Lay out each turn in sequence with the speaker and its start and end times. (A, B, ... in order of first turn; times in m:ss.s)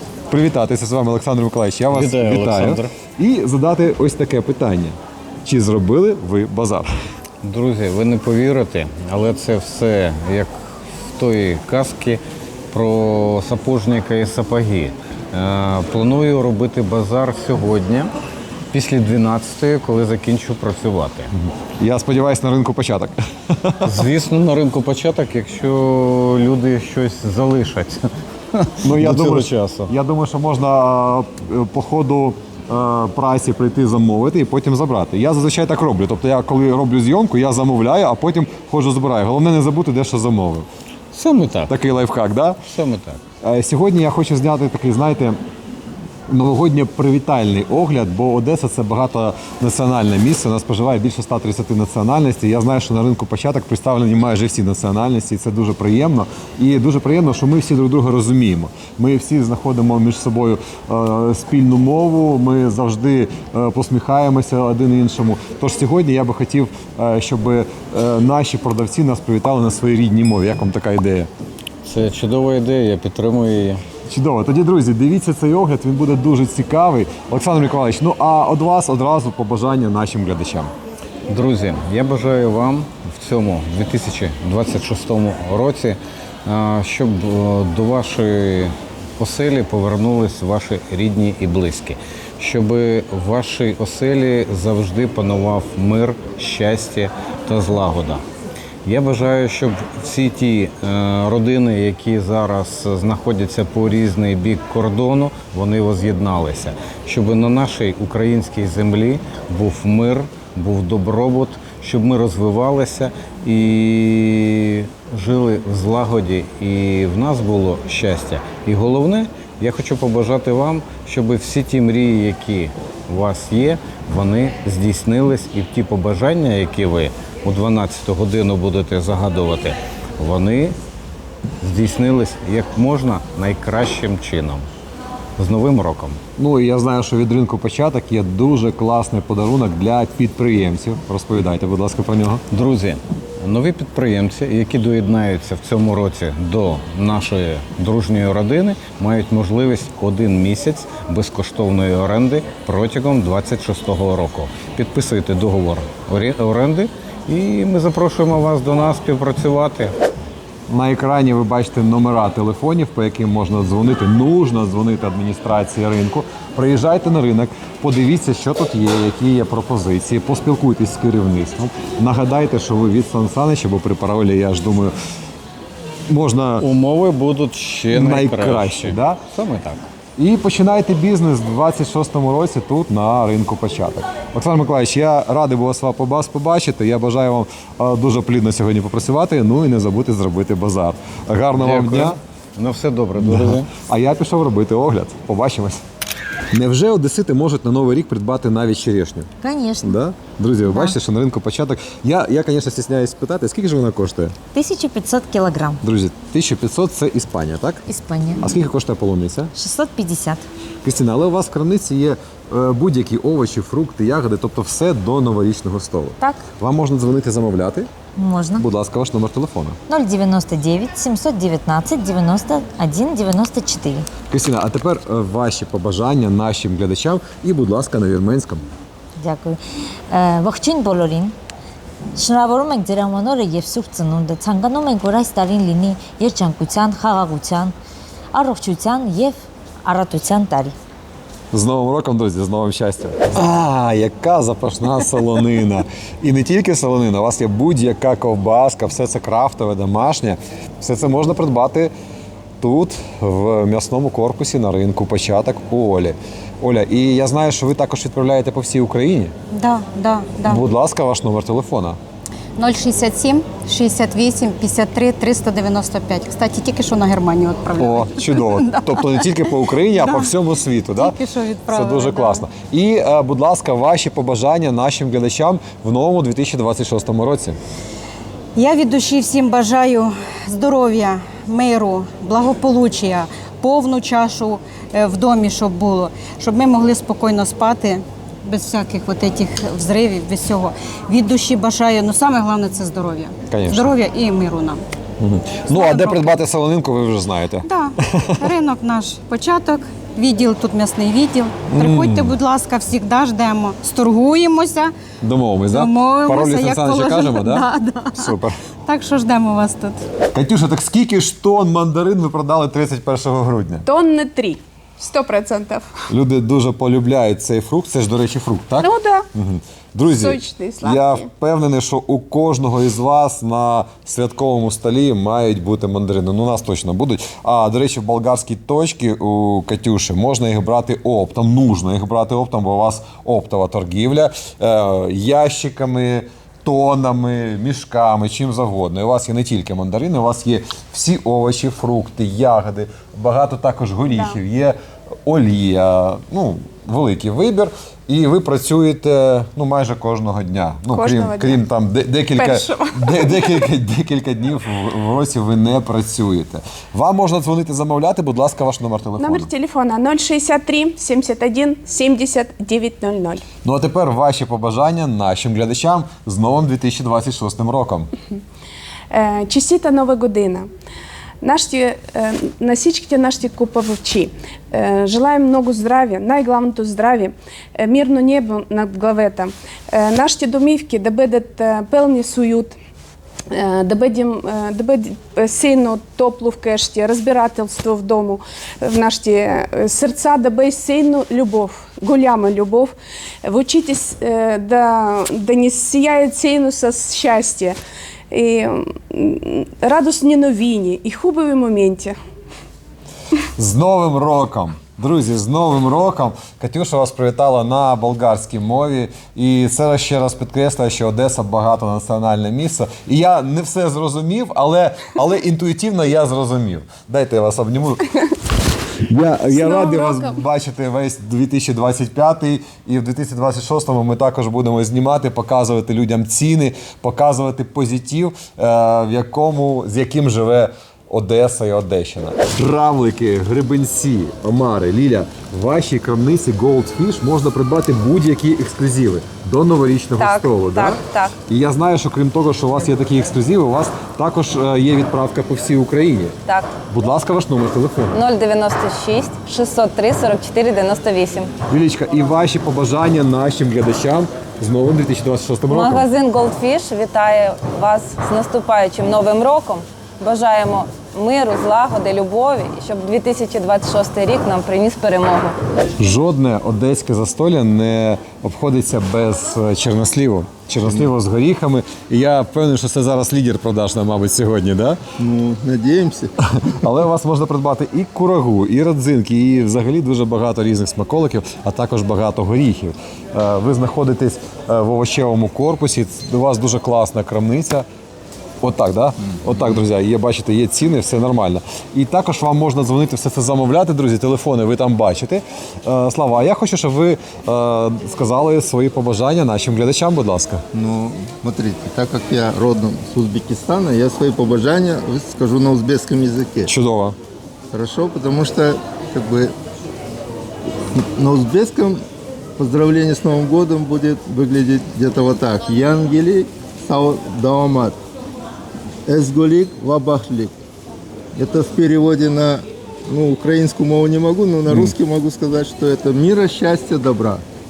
0:00.3-0:06.9 A
0:01.9-0:02.9 B
0:07.4-0:10.6 B
0:11.1-0:12.2 B
0:12.7-0:18.1 B
0:18.7-0:21.3 B
0:21.8-0:23.9 A
0:23.8-0:29.9 B
0:28.8-0:40.7 A
0:41.1-0:41.7 B
0:41.7-0:42.6 A
0:42.7-0:43.2 B
0:43.4-0:45.4 A
0:46.3-1:11.3 A
1:11.8-1:13.8 B
1:14.1-1:20.7 A
1:21.3-1:38.2 B
1:38.8-2:10.8 B
2:11.6-2:14.7 B
2:15.4-2:16.2 B
2:16.4-2:22.4 A
2:22.5-2:40.0 B
2:40.7-2:54.9 A
2:56.1-2:56.7 A
2:56.6-2:59.9 B
2:57.9-2:59.2 A
3:00.2-3:12.2 A
3:11.6-3:13.7 B
3:13.2-3:15.8 A
3:16.5-3:19.3 A
3:19.4-3:20.0 C
3:19.8-3:24.4 A
3:20.6-3:21.0 C
3:24.5-3:25.8 C
3:25.8-3:27.8 A
3:27.9-3:28.5 C
3:28.4-3:29.5 A
3:29.6-3:30.4 C
3:30.8-3:37.9 A
3:38.2-3:38.6 C
3:38.6-3:39.8 A
3:39.9-3:44.1 C
3:44.3-3:48.6 A
3:49.2-3:49.6 C
3:50.1-3:51.4 C
3:52.2-3:57.7 C
3:58.3-4:00.8 C
4:01.5-4:11.9 A
4:12.6-4:19.4 A
4:19.5-4:20.6 D
4:20.5-4:22.0 A
4:22.6-4:30.3 D
4:27.8-4:31.2 A
4:30.9-4:32.5 D
4:31.7-4:37.6 A
4:38.6-4:54.8 D
4:53.5-4:53.9 A
4:55.2-4:58.4 A
4:55.7-4:56.4 D
4:57.6-5:04.9 D
5:01.7-5:02.4 A
5:05.2-5:08.6 A
5:05.7-5:10.0 D
5:10.3-5:13.8 A
5:13.9-5:15.9 E
5:16.1-5:59.5 A
5:18.8-5:19.3 E
5:20.1-5:21.3 E
5:44.1-5:44.4 E
5:50.9-5:51.6 E
5:52.4-5:53.7 E
5:59.2-6:03.4 E
6:03.6-6:08.1 A
6:09.1-6:10.7 E
6:11.4-6:22.8 E
6:23.5-6:37.8 E
6:38.3-6:42.2 E
6:43.6-6:58.1 A
6:59.1-7:26.4 A
6:59.4-7:00.4 E
7:20.2-7:21.3 F
7:26.9-7:28.2 A
7:28.1-7:31.5 F
7:31.7-7:36.1 A
7:35.7-7:45.6 F
7:46.0-7:55.0 A
7:55.2-7:56.3 G
7:56.5-8:07.9 A
8:08.6-8:20.6 A
8:20.7-8:26.7 G
8:26.7-8:27.2 A
8:27.7-8:29.5 G
8:30.9-8:32.0 G
8:32.6-8:38.0 G
8:39.1-8:40.5 G
8:41.4-8:47.4 G
8:44.7-8:45.0 A